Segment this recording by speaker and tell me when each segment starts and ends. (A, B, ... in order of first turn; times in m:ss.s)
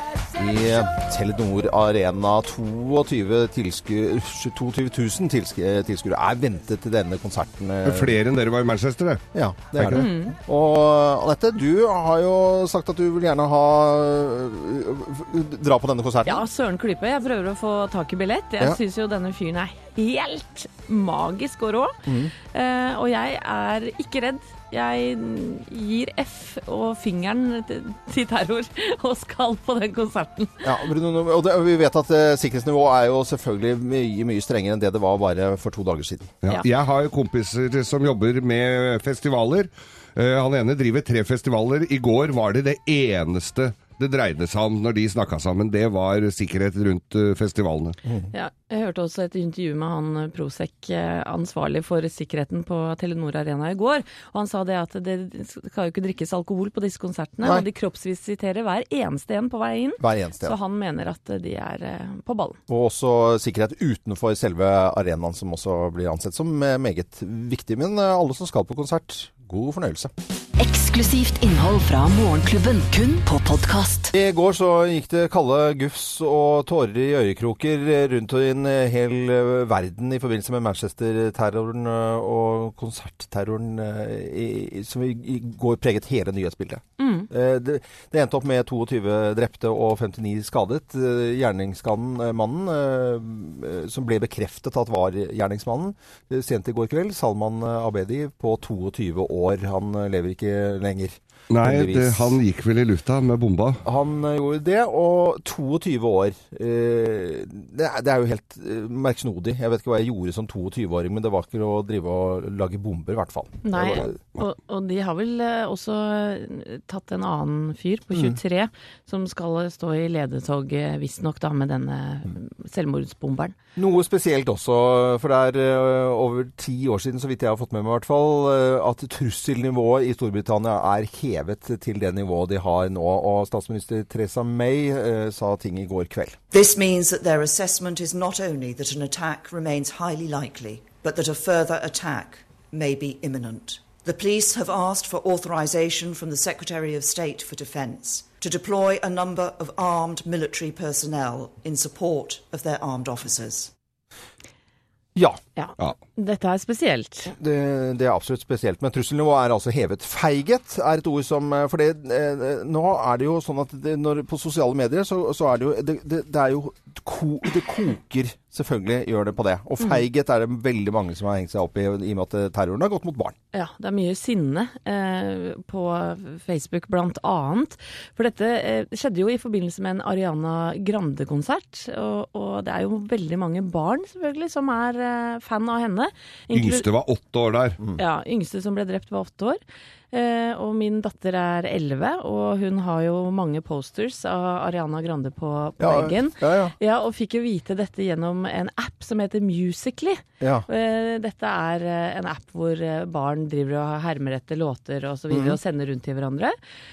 0:00.3-0:08.2 A
0:07.8-0:09.2 B
0:09.3-0:16.4 A
0:09.8-0:10.1 B
0:09.9-0:10.4 C
0:16.2-0:22.0 C
0:22.0-0:22.3 A
0:22.5-0:30.7 C
0:30.6-0:36.4 A
0:36.4-0:48.0 B
0:48.3-1:02.6 C
1:00.0-1:00.6 A
1:02.7-1:10.1 A
1:10.6-1:14.1 D
1:14.1-1:42.4 A
1:27.0-1:27.3 C
1:41.5-1:43.8 B
1:43.8-1:54.1 A
1:53.6-2:03.5 C
1:58.1-1:58.4 A
2:03.8-2:16.4 A
2:16.5-2:33.7 E
2:35.1-2:35.4 A
2:35.6-2:37.3 C
2:37.3-2:53.4 A
2:53.5-3:06.9 C
3:06.5-3:07.8 B
3:08.0-3:09.6 C
3:10.1-3:26.5 C
3:15.8-3:16.7 A
3:20.4-3:20.7 A
3:25.3-3:25.6 A